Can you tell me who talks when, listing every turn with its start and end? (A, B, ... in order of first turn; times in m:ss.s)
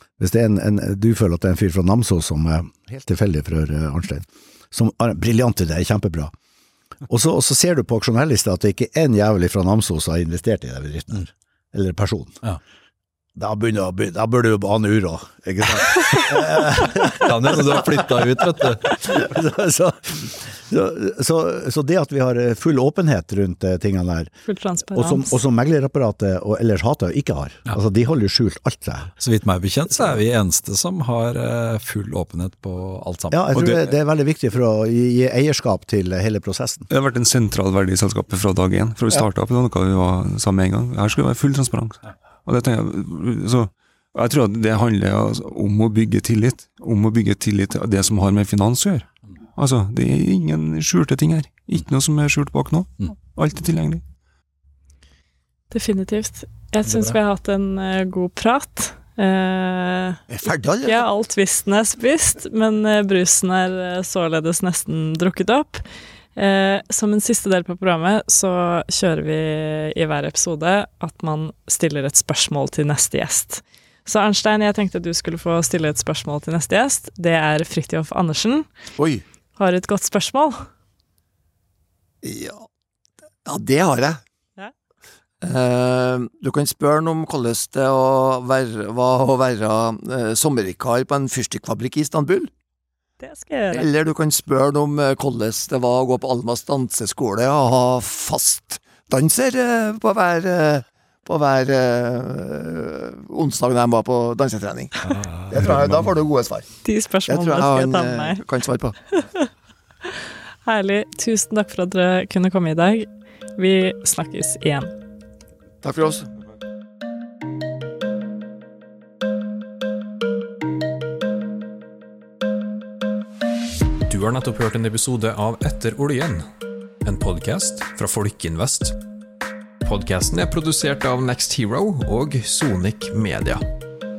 0:00.2-0:06.3 A
0:07.1-0:12.4 A
0:13.4-0:24.3 A
0:17.0-0:19.0 B
0:24.5-0:25.3 C
0:24.9-0:29.1 A
0:29.2-0:33.9 B
0:33.3-0:36.9 A
0:36.9-0:54.0 D
0:55.7-1:00.2 C
0:56.9-0:57.2 B
1:00.3-1:01.1 E
1:00.8-1:05.8 C
1:06.4-1:18.7 C
1:19.0-1:19.2 E
1:19.6-1:20.6 C
1:22.2-1:22.7 E
1:23.4-1:24.2 E
1:25.4-1:32.5 E
1:33.2-1:33.9 C
1:33.7-1:46.7 E
1:45.0-1:46.1 B
1:46.8-1:48.4 C
1:47.3-1:49.0 E
1:49.1-1:49.5 C
1:50.6-1:54.9 C
1:55.8-1:56.3 E
2:04.0-2:06.5 F
2:07.0-2:09.0 F
2:09.8-2:13.6 F